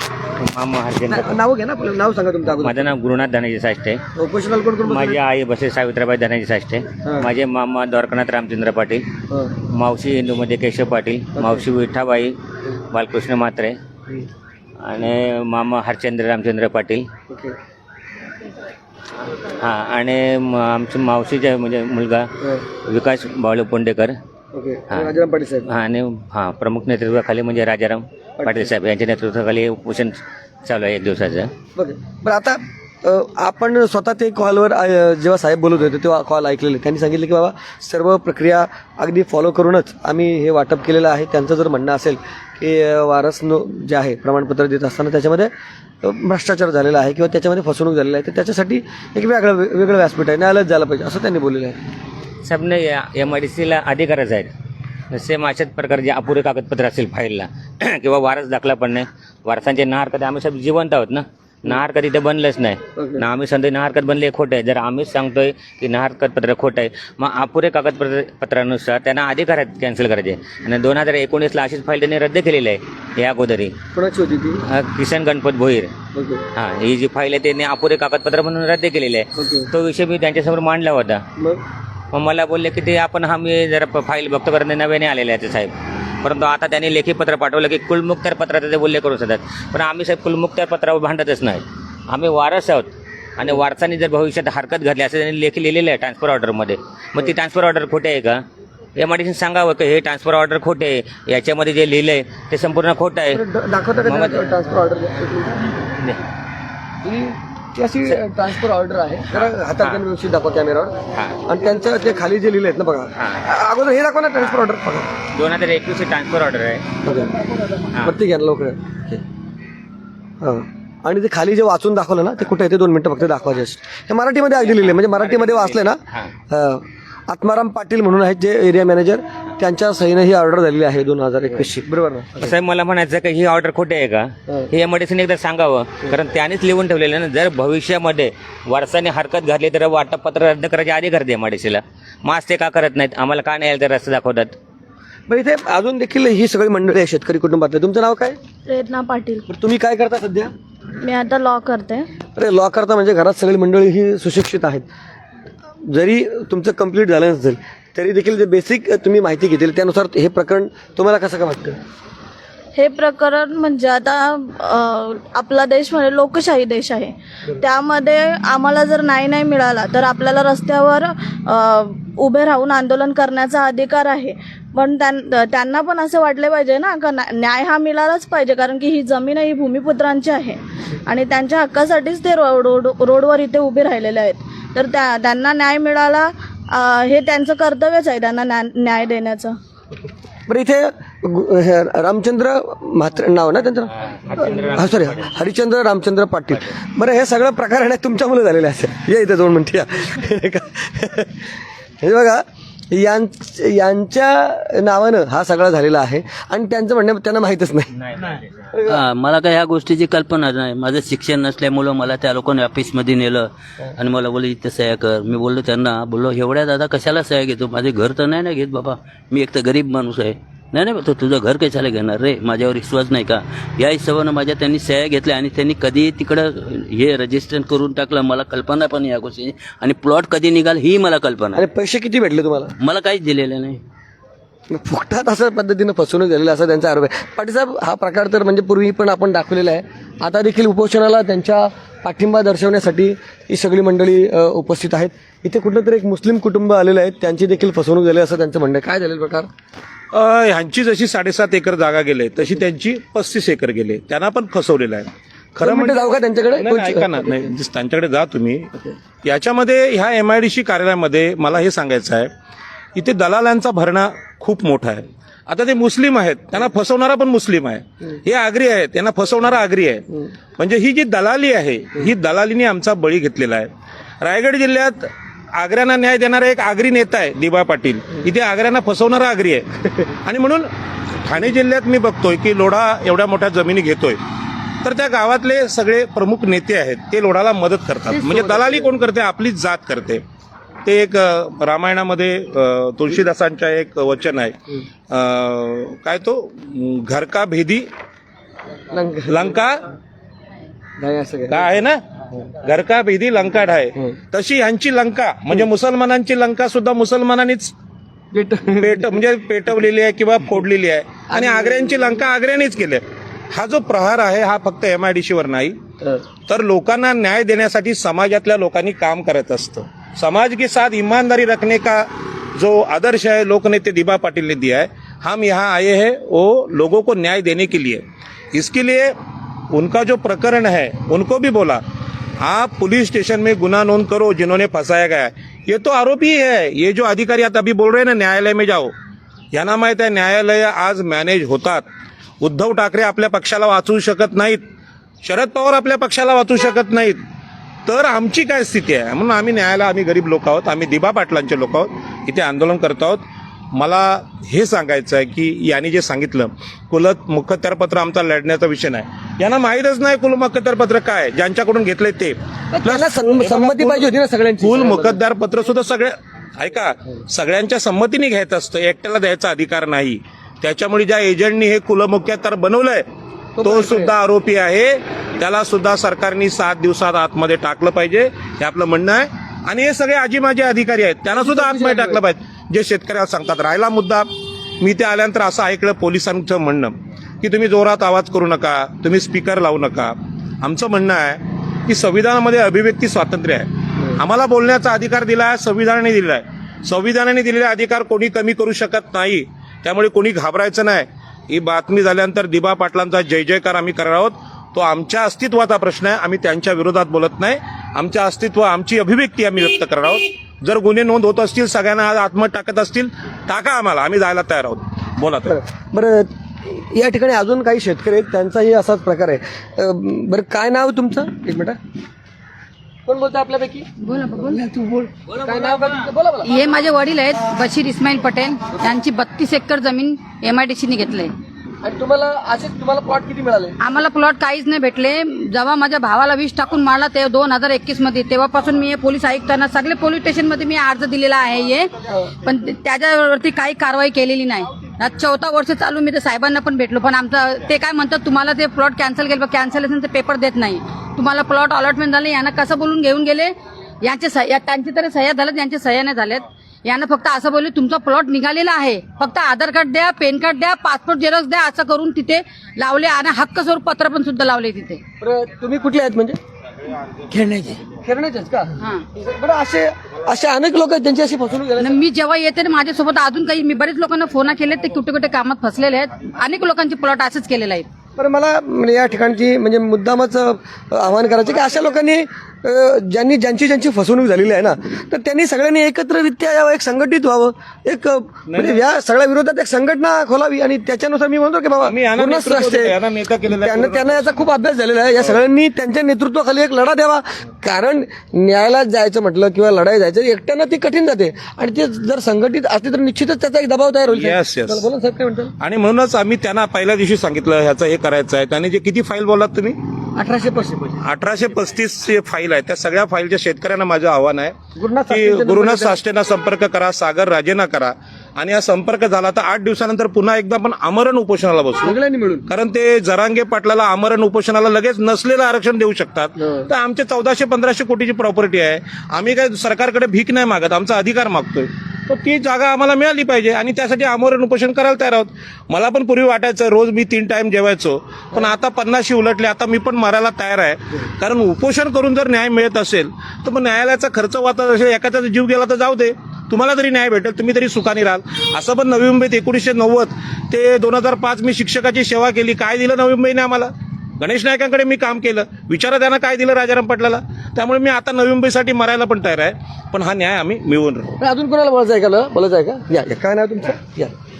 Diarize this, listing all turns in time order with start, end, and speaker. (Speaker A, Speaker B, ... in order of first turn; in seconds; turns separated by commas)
Speaker A: 0.4-1.4, Speaker B: 1.1-2.9, Speaker A: 2.6-4.0, Speaker B: 4.2-5.2, Speaker A: 4.8-9.1, Speaker B: 7.0-7.3, Speaker B: 9.3-9.6, Speaker A: 9.7-12.4, Speaker B: 11.4-11.7, Speaker A: 12.9-13.8, Speaker A: 14.8-17.1, Speaker B: 17.3-17.6, Speaker A: 19.5-24.2, Speaker B: 24.5-25.7, Speaker A: 24.9-31.5, Speaker B: 28.4-28.7, Speaker B: 31.8-51.8, Speaker A: 52.4-54.5, Speaker A: 55.1-73.8, Speaker B: 63.0-63.2, Speaker B: 73.9-74.6, Speaker A: 74.7-75.9, Speaker B: 76.1-76.4, Speaker A: 76.5-81.2, Speaker B: 79.4-79.7, Speaker B: 81.4-81.6, Speaker A: 82.1-98.4, Speaker A: 99.0-103.4, Speaker B: 103.3-105.7, Speaker A: 104.0-104.6, Speaker A: 105.8-106.2, Speaker B: 107.0-115.1, Speaker A: 109.3-110.0, Speaker A: 111.1-111.4, Speaker A: 113.2-113.4, Speaker A: 115.3-117.0, Speaker B: 117.0-119.2, Speaker B: 120.4-132.5, Speaker A: 124.6-126.3, Speaker A: 132.4-144.6, Speaker B: 145.3-148.4, Speaker C: 148.7-149.5, Speaker B: 149.5-150.5, Speaker C: 151.0-152.1, Speaker B: 152.4-154.9, Speaker B: 155.8-161.8, Speaker C: 162.8-189.6, Speaker B: 190.5-193.9, Speaker A: 193.9-195.4, Speaker B: 194.5-201.4, Speaker B: 202.0-207.9, Speaker A: 208.0-208.5, Speaker B: 208.7-209.0, Speaker D: 208.9-231.7, Speaker B: 231.5-232.7, Speaker D: 232.8-233.8, Speaker B: 234.7-249.5, Speaker E: 250.1-262.3, Speaker B: 255.6-257.3, Speaker E: 262.9-280.7, Speaker E: 281.2-284.2, Speaker E: 284.8-290.2, Speaker B: 288.4-288.6, Speaker E: 290.9-297.9, Speaker B: 298.9-299.6, Speaker E: 299.3-299.8, Speaker B: 301.0-301.7, Speaker E: 301.5-302.0, Speaker E: 302.6-307.7, Speaker B: 308.3-309.1, Speaker E: 308.8-315.8, Speaker B: 311.3-311.8, Speaker E: 316.5-329.1, Speaker E: 329.7-331.8, Speaker E: 332.4-338.9, Speaker E: 339.5-341.9, Speaker E: 342.4-344.6, Speaker E: 345.2-347.2, Speaker E: 347.9-364.1, Speaker B: 362.7-365.2, Speaker E: 364.6-373.1, Speaker B: 373.6-374.1, Speaker E: 373.6-384.3, Speaker B: 381.4-382.2, Speaker E: 384.8-415.6, Speaker B: 415.5-421.8, Speaker B: 423.1-426.5, Speaker F: 424.0-424.6, Speaker F: 426.4-431.3, Speaker B: 431.8-433.8, Speaker F: 433.8-441.9, Speaker F: 442.4-465.0, Speaker B: 465.2-466.4, Speaker D: 467.3-467.8, Speaker B: 467.7-472.0, Speaker F: 468.8-469.1, Speaker F: 471.8-477.9, Speaker B: 478.2-492.9, Speaker E: 488.5-488.8, Speaker E: 491.8-494.4, Speaker B: 493.6-505.5, Speaker E: 504.1-504.9, Speaker E: 505.6-509.8, Speaker B: 510.1-511.0, Speaker E: 511.0-514.5, Speaker B: 514.8-516.0, Speaker E: 515.1-522.0, Speaker B: 521.8-522.5, Speaker E: 522.5-561.1, Speaker B: 526.4-526.7, Speaker B: 561.2-564.1